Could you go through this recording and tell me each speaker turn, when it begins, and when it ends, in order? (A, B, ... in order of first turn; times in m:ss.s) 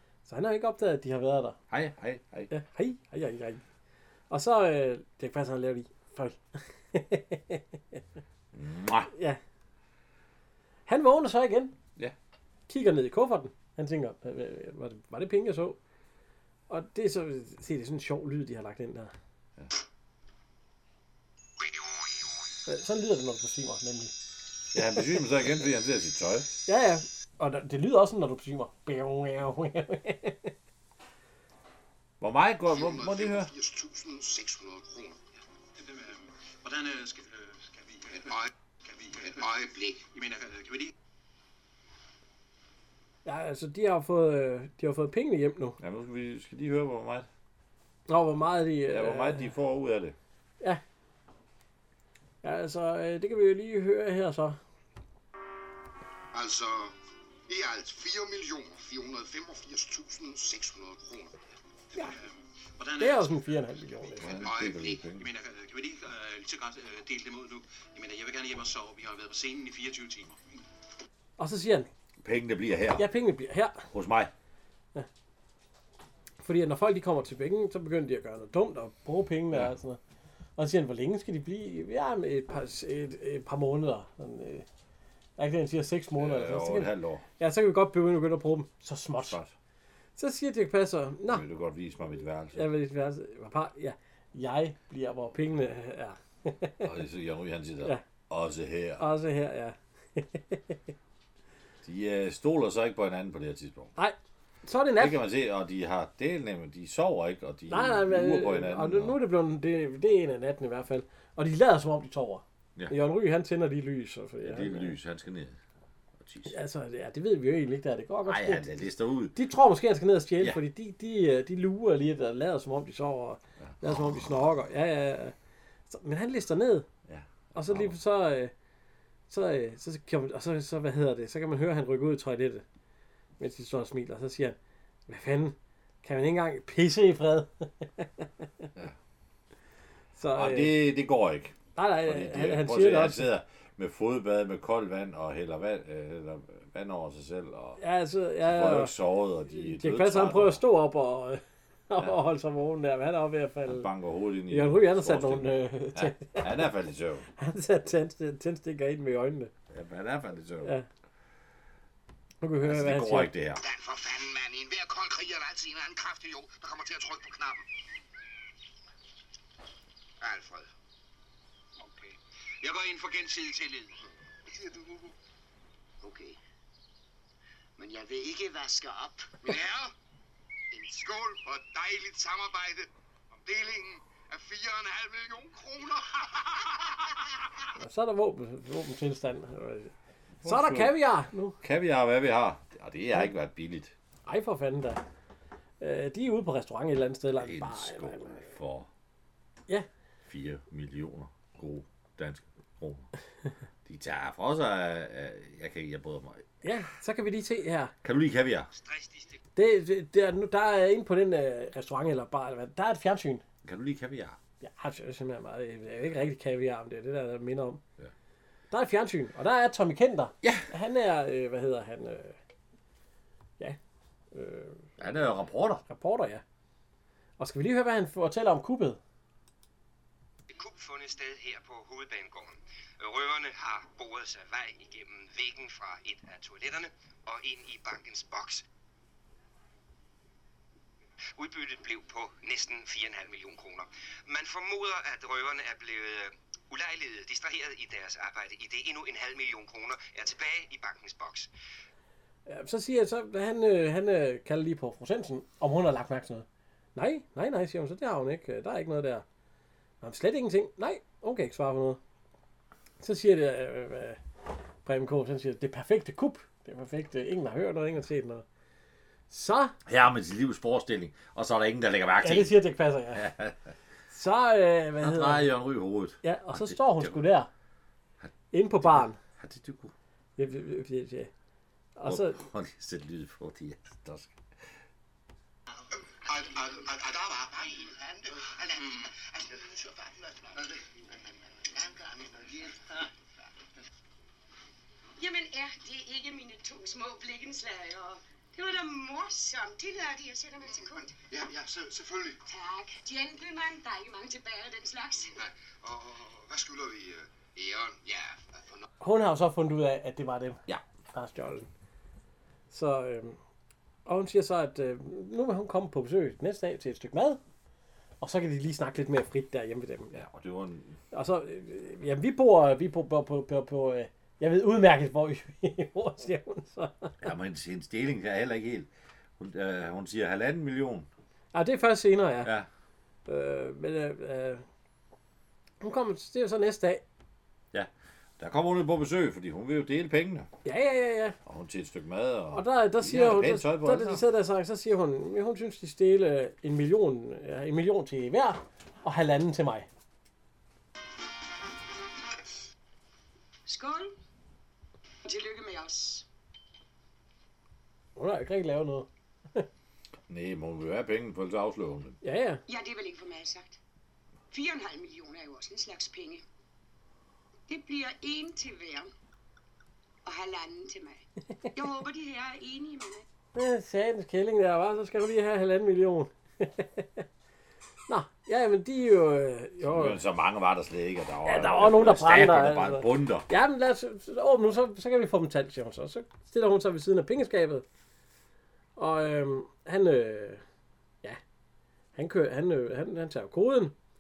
0:00.2-0:01.6 A
0:01.7-0:02.5 B
0:02.5-0:03.6 A
0:04.3-0:08.0 A
0:08.5-0:09.1 B
0:09.1-0:09.4 A
0:10.9-0:11.7 A
0:12.7-0:15.8 A
0:16.7-0:19.1 A
0:22.7-0:24.1 A
0:24.7-0:26.5 B
0:26.7-0:30.5 A
0:32.2-0:33.5 B
0:32.7-0:35.2 C
0:35.7-0:40.9 D
0:38.2-0:38.5 C
0:39.2-0:40.0 C
0:43.2-0:45.8 A
0:45.8-0:47.3 B
0:48.1-0:49.5 A
0:48.9-0:50.2 B
0:52.4-0:54.6 A
0:56.3-0:56.9 C
0:57.5-1:01.3 C
1:01.9-1:03.3 D
1:03.0-1:04.4 A
1:04.2-1:05.2 B
1:04.4-1:05.0 C
1:05.1-1:10.6 D
1:11.4-1:11.9 A
1:12.2-1:13.1 B
1:13.0-1:13.8 A
1:13.9-1:14.3 B
1:16.4-1:20.0 A
1:20.6-1:24.6 A
1:25.4-1:29.4 A
1:26.2-1:27.2 B
1:29.3-1:29.5 B
1:30.2-1:31.4 A
1:31.3-1:32.6 B
1:32.5-1:36.9 A
1:36.8-1:39.1 B
1:39.0-1:40.8 A
1:41.8-1:43.9 B
1:44.0-1:45.2 A
1:45.0-1:49.2 B
1:47.7-1:55.0 A
1:54.4-1:55.6 B
1:56.2-1:56.5 B
1:56.5-1:58.8 A
1:58.2-1:59.3 B
1:59.3-2:05.3 A
2:03.6-2:04.4 B
2:05.9-2:06.9 A
2:07.1-2:07.9 B
2:07.5-2:08.5 A
2:09.3-2:12.6 A
2:13.4-2:14.6 A
2:15.1-2:18.7 A
2:20.2-2:20.7 A
2:20.3-2:27.8 B
2:21.8-2:23.3 A
2:27.8-2:28.9 A
2:28.4-2:30.6 B
2:29.6-2:33.9 A
2:33.7-2:37.3 B
2:34.5-2:36.7 A
2:37.4-2:39.5 A
2:39.7-2:40.8 B
2:42.4-2:43.3 A
2:42.6-2:43.6 B
2:43.6-2:47.7 C
2:50.2-2:50.7 C
2:52.6-2:53.9 D
2:54.4-2:55.1 C
2:56.0-2:56.4 C
2:57.8-2:59.9 C
3:00.7-3:07.4 C
3:07.8-3:09.9 A
3:10.4-3:10.9 B
3:10.4-3:11.6 A
3:11.6-3:13.9 B
3:14.2-3:15.0 A
3:15.8-3:18.5 A
3:17.4-3:18.9 B
3:20.3-3:23.1 B
3:23.8-3:26.4 B
3:26.6-3:27.9 A
3:28.0-3:28.7 B
3:29.6-3:33.4 A
3:33.6-3:34.4 B
3:34.6-3:37.8 A
3:38.7-3:42.4 A
3:40.4-3:40.7 B
3:44.3-3:44.9 A
3:45.0-3:45.8 B
3:45.9-3:46.4 A
3:47.4-3:49.0 A
3:50.5-3:58.6 E
4:01.6-4:01.8 C
4:01.8-4:02.8 E
4:05.3-4:06.0 E
4:06.8-4:11.4 E
4:12.5-4:19.2 A
4:20.0-4:22.0 A
4:23.0-4:24.2 A
4:24.8-4:28.4 A
4:29.3-4:29.8 A
4:29.8-4:32.6 B
4:32.2-4:33.3 A
4:33.1-4:33.7 B
4:34.1-4:35.5 A
4:35.0-4:37.2 B
4:36.2-4:37.5 A
4:38.2-4:39.9 B
4:38.5-4:39.2 A
4:40.4-4:41.3 A
4:42.0-4:42.4 A
4:42.0-4:44.7 B
4:46.2-4:53.4 C
4:55.2-5:01.2 F
5:01.1-5:02.4 C
5:02.4-5:05.3 F
5:05.2-5:08.8 C
5:09.0-5:10.6 A
5:11.1-5:11.7 A
5:12.7-5:13.4 A
5:14.0-5:17.4 A
5:18.2-5:20.1 A
5:20.1-5:21.0 B
5:21.1-5:27.2 A
5:27.2-5:31.1 B
5:31.5-5:32.5 A
5:33.2-5:34.6 A
5:35.8-5:37.0 A
5:37.7-5:40.5 B
5:40.6-5:41.4 A
5:41.4-5:44.2 B
5:42.5-5:49.9 A
5:53.6-5:54.1 F
5:55.2-5:56.2 F
5:58.2-5:59.7 A
6:00.3-6:02.2 B
6:02.2-6:02.6 A
6:02.7-6:03.8 F
6:04.5-6:06.4 F
6:07.7-6:09.1 F
6:10.2-6:13.2 F
6:13.5-6:17.2 A
6:18.1-6:20.2 A
6:19.8-6:23.5 B
6:21.4-6:27.8 A
6:29.0-6:30.6 A
6:32.2-6:33.9 A